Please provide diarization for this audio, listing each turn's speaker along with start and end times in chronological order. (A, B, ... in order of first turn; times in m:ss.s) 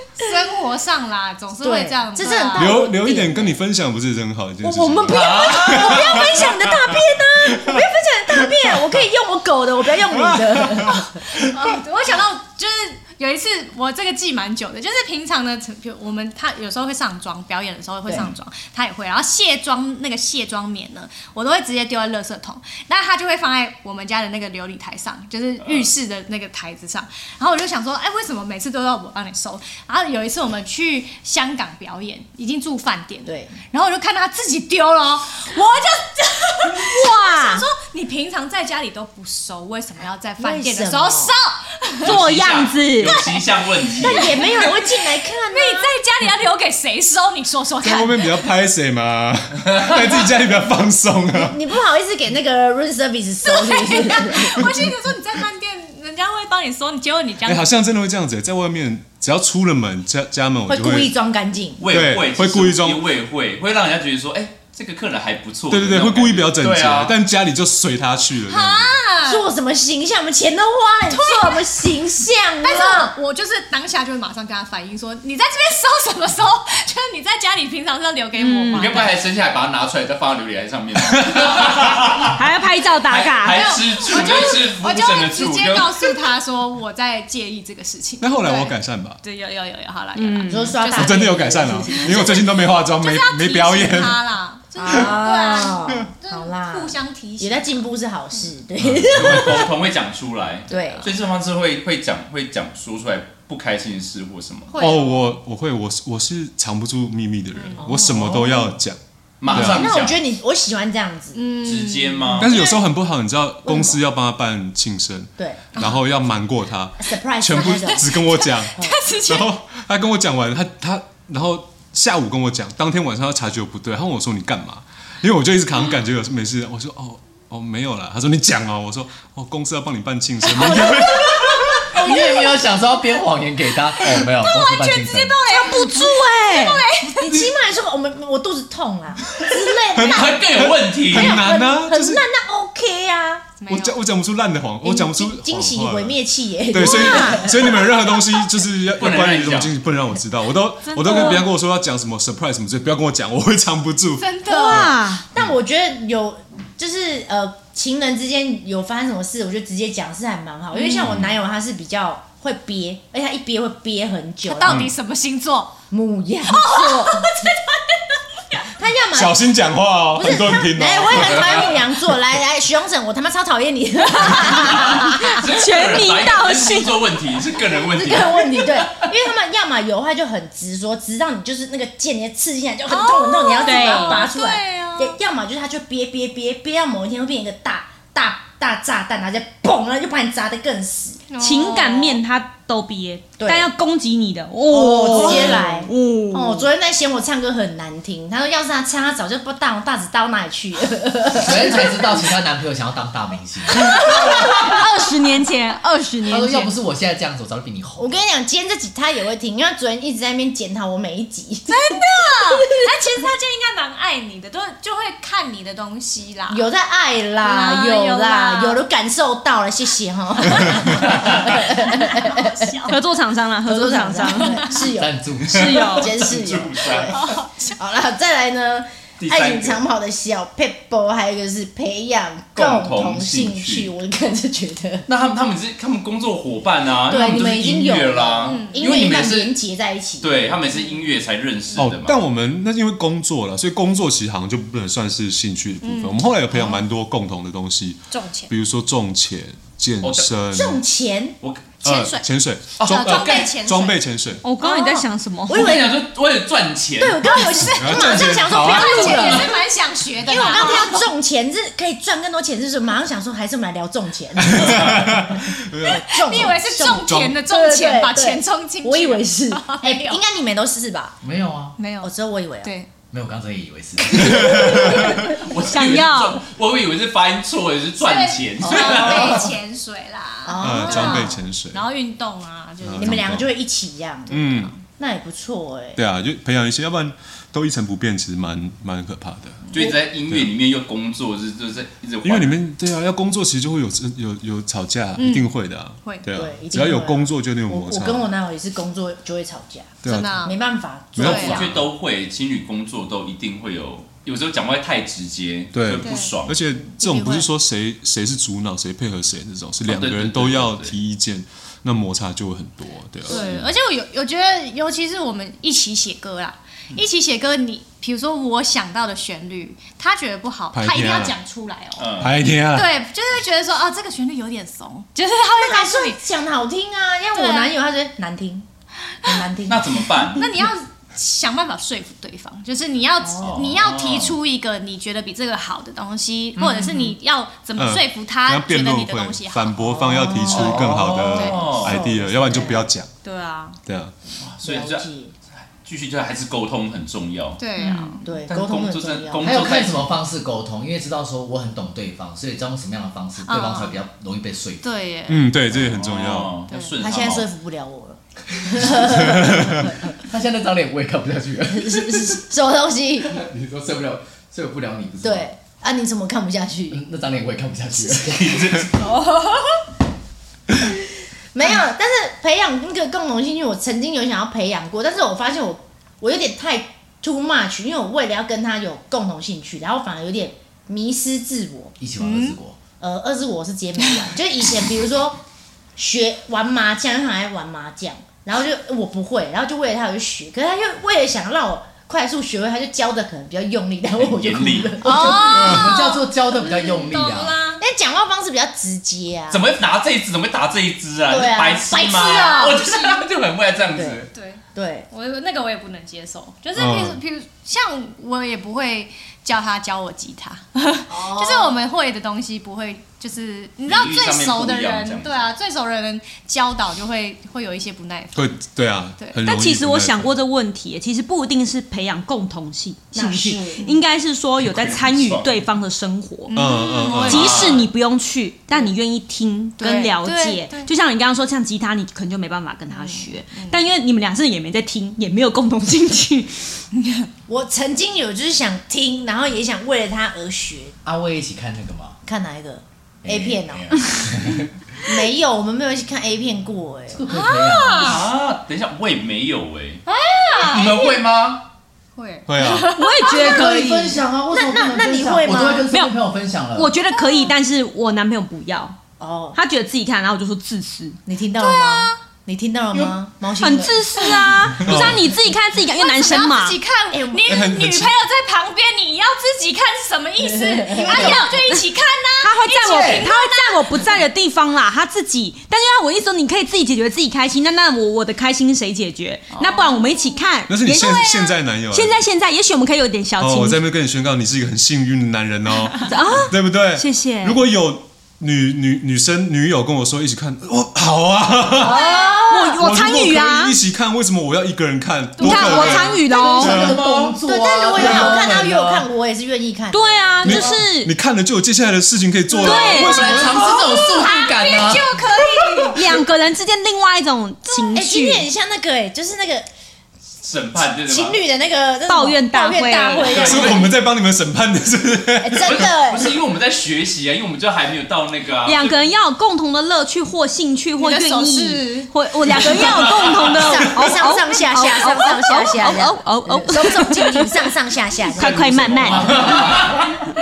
0:00.2-0:02.8 A
0:01.6-0:03.6 B
0:02.5-0:09.0 C
0:04.6-0:11.2 B
0:05.1-0:06.4 D
0:10.0-0:11.0 C
0:11.3-0:42.2 A
0:18.0-0:18.3 B
0:33.2-0:33.6 B
0:36.8-0:37.6 E
0:40.4-0:41.3 B
0:42.0-0:43.4 E
0:42.0-0:44.4 D
0:43.1-0:48.4 A
0:44.0-0:45.9 B
0:47.8-0:51.6 C
0:51.3-0:54.7 B
0:53.4-0:57.7 A
0:57.4-1:01.1 C
1:00.7-1:01.8 B
1:01.8-1:07.1 D
1:01.8-1:03.0 C
1:05.7-1:09.0 C
1:08.4-1:09.4 A
1:09.2-1:13.1 B
1:11.1-1:12.0 A
1:12.6-1:19.1 A
1:18.4-1:19.0 E
1:18.7-1:22.4 D
1:22.3-1:23.8 E
1:23.1-1:26.2 D
1:23.4-1:37.9 A
1:28.2-1:29.2 C
1:30.1-1:30.8 E
1:30.4-1:32.2 B
1:30.9-1:34.2 C
1:34.8-1:39.6 B
1:34.9-1:35.2 C
1:38.8-1:39.7 C
1:39.1-1:44.8 D
1:40.7-1:41.1 A
1:40.7-1:41.1 B
1:44.7-1:45.3 A
1:44.8-1:49.9 C
1:47.5-1:47.8 A
1:47.8-1:48.7 B
1:49.4-1:50.2 D
1:49.5-1:51.4 B
1:51.3-1:52.8 A
1:51.6-1:52.5 D
1:52.4-2:11.8 C
1:53.6-1:54.0 B
1:55.4-1:55.6 B
1:57.0-1:58.2 B
1:57.6-1:59.5 A
2:10.6-2:11.3 B
2:11.8-2:15.4 F
2:14.4-2:17.4 A
2:15.4-2:16.8 E
2:17.0-2:23.5 B
2:19.9-2:22.2 C
2:20.0-2:21.4 D
2:23.6-2:24.0 A
2:23.7-2:26.2 C
2:24.8-2:27.8 B
2:26.7-2:34.8 C
2:26.8-2:27.5 E
2:26.9-2:27.6 A
2:29.0-2:29.7 D
2:30.8-2:31.5 A
2:34.2-2:35.0 A
2:34.5-2:35.2 E
2:34.7-2:44.8 B
2:40.7-2:41.0 A
2:44.4-2:45.8 A
2:44.7-2:44.9 C
2:45.9-2:47.4 B
2:46.5-2:48.1 A
2:48.8-2:49.5 B
2:49.1-2:51.9 C
2:50.1-2:55.4 B
2:54.6-2:59.0 D
2:55.3-2:57.0 E
2:57.9-3:11.2 B
3:02.9-3:05.2 A
3:03.6-3:04.3 E
3:11.3-3:12.2 A
3:11.4-3:16.7 E
3:13.4-3:13.7 B
3:14.7-3:22.1 B
3:15.1-3:15.5 F
3:21.4-3:24.0 F
3:23.9-3:24.3 A
3:24.1-3:26.7 E
3:26.2-3:28.2 F
3:28.0-3:32.0 B
3:31.7-3:36.7 A
3:36.5-3:42.7 B
3:37.4-3:38.8 A
3:41.1-3:41.5 D
3:41.8-3:43.0 A
3:42.9-3:44.7 E
3:43.6-3:55.0 B
3:44.5-3:44.9 A
3:44.9-3:46.0 F
3:45.5-3:46.1 E
3:45.5-3:47.4 D
3:47.2-3:47.5 A
3:49.2-3:49.8 D
3:52.6-3:53.9 D
3:55.1-3:59.5 D
3:57.1-4:01.0 B
3:58.4-3:58.8 A
4:00.2-4:02.2 D
4:01.8-4:10.8 C
4:05.8-4:06.6 A
4:08.1-4:08.5 A
4:10.0-4:10.3 D
4:10.5-4:11.4 B
4:11.8-4:12.2 A
4:11.8-4:14.4 C
4:12.8-4:13.5 D
4:12.8-4:14.0 A
4:14.4-4:15.9 E
4:14.6-4:15.0 A
4:15.5-4:16.0 B
4:15.5-4:17.6 D
4:17.0-4:19.5 B
4:17.2-4:21.0 A
4:17.8-4:19.5 C
4:20.2-4:31.2 B
4:20.5-4:20.9 E
4:24.4-4:27.4 C
4:26.2-4:30.2 A
4:31.2-4:31.8 F
4:31.8-4:32.9 A
4:32.0-4:32.7 B
4:33.1-4:34.7 F
4:34.0-4:35.3 B
4:34.3-4:35.1 C
4:34.5-4:35.0 A
4:35.3-4:39.5 D
4:35.6-4:36.4 E
4:38.0-4:43.2 A
4:38.6-4:39.5 B
4:40.4-4:41.4 B
4:40.6-4:41.8 C
4:42.8-4:43.5 C
4:42.9-4:46.0 B
4:44.3-4:44.7 C
4:44.4-4:44.7 A
4:46.0-4:49.7 C
4:49.7-4:52.6 D
4:52.2-4:58.3 C
4:55.2-4:55.5 A
4:56.0-4:56.3 A
4:56.3-5:01.8 B
5:00.0-5:00.4 C
5:00.0-5:00.6 A
5:01.1-5:01.8 C
5:01.2-5:01.6 A
5:01.2-5:06.6 D
5:05.7-5:13.7 C
5:06.0-5:06.4 A
5:07.0-5:07.5 A
5:09.9-5:10.9 D
5:13.2-5:26.2 A
5:13.3-5:13.6 D
5:20.7-5:21.3 C
5:22.0-5:22.4 D
5:22.2-5:22.9 C
5:25.6-5:28.7 B
5:27.3-5:27.7 A
5:29.2-5:29.5 A
5:29.2-5:30.2 B
5:29.7-5:30.5 D
5:30.3-5:40.8 A
5:33.2-5:33.6 B
5:33.4-5:34.4 D
5:37.8-5:43.1 C
5:39.9-5:42.9 B
5:40.5-5:42.0 D
5:41.3-5:41.8 A
5:43.2-5:43.8 A
5:43.8-5:44.1 C
5:44.4-5:45.1 D
5:44.6-5:45.3 B
5:45.6-5:47.6 D
5:47.6-5:48.4 A
5:47.8-5:48.1 E
5:48.2-5:49.5 B
5:48.5-5:50.1 D
5:49.4-5:54.8 F
5:53.4-5:54.0 A
5:54.8-5:55.5 A
5:55.3-5:56.6 C
5:55.8-5:57.5 D
5:56.7-5:57.0 A
5:57.0-6:00.2 B
5:58.8-5:59.4 F
5:59.1-5:59.9 C
6:00.2-6:02.4 F
6:01.7-6:03.4 B
6:03.3-6:05.5 F
6:05.2-6:07.0 B
6:06.9-6:08.9 F
6:08.3-6:08.9 D
6:09.0-6:09.8 A
6:11.5-6:22.0 B
6:22.0-6:22.8 F
6:22.2-6:22.6 A
6:23.0-6:25.4 B
6:26.0-6:35.7 B
6:34.2-6:35.0 D
6:35.0-6:37.8 A
6:35.1-6:37.6 F
6:37.8-6:39.7 B
6:39.5-6:44.3 D
6:41.3-6:42.8 B
6:42.2-6:43.3 A
6:43.9-6:44.2 B
6:44.3-6:58.6 A
6:44.7-6:45.1 B
6:46.8-6:47.2 C
6:51.1-6:51.8 B
6:53.9-6:55.5 D
6:58.3-7:00.3 C
6:59.4-7:16.8 E
7:03.1-7:03.8 B
7:04.6-7:05.5 D
7:06.5-7:07.9 A
7:06.5-7:07.7 C
7:07.2-7:07.9 D
7:09.8-7:10.9 A
7:12.9-7:13.8 A
7:16.9-7:17.3 A
7:17.5-7:21.0 B
7:21.0-7:22.2 F
7:22.2-7:24.0 B
7:23.2-7:24.7 F
7:25.0-7:27.2 B
7:27.1-7:28.2 F
7:27.3-7:28.2 A
7:28.0-7:30.0 D
7:30.0-7:31.2 A
7:30.6-7:31.6 D
7:32.2-7:33.7 A
7:32.5-7:32.9 C
7:32.9-7:34.2 E
7:33.3-7:37.0 F
7:34.5-7:35.9 B
7:35.9-7:36.1 E
7:36.7-7:39.0 E
7:37.1-7:37.5 A
7:39.2-7:39.6 B
7:39.5-7:41.2 E
7:41.2-7:44.0 B
7:41.5-7:42.2 A
7:43.6-7:46.8 E
7:44.1-7:44.5 A
7:44.8-7:45.3 C
7:45.9-7:54.2 A
7:47.1-7:47.4 B
7:47.4-7:48.1 C
7:50.4-7:51.4 B
7:51.1-7:51.8 E
7:52.4-8:01.3 E
7:52.8-7:53.2 F
7:59.5-8:00.4 A
8:00.7-8:02.2 C
8:00.9-8:01.5 A
8:01.9-8:03.8 E
8:03.4-8:12.0 C
8:06.0-8:07.6 E
8:11.8-8:12.8 B
8:11.9-8:12.4 A
8:12.5-8:13.7 E
8:12.8-8:17.0 C
8:15.4-8:15.9 A
8:15.4-8:17.0 E
8:15.6-8:19.0 F
8:16.8-8:17.4 D
8:17.4-8:20.6 B
8:18.0-8:18.5 C
8:19.9-8:21.1 E
8:20.4-8:23.8 C
8:22.6-8:23.3 E
8:22.6-8:26.2 A
8:22.9-8:25.2 F
8:25.9-8:28.5 E
8:27.9-8:29.7 B
8:30.4-8:31.4 D
8:30.8-8:33.8 B
8:32.1-8:33.6 E
8:33.2-8:33.9 D
8:33.4-8:35.9 C
8:35.4-8:36.4 B
8:35.6-8:39.0 D
8:38.6-8:47.7 E
8:41.0-8:42.1 A
8:42.5-8:43.8 D
8:43.5-8:49.7 B
8:48.3-8:49.6 E
8:48.4-8:50.2 D
8:49.1-8:50.0 F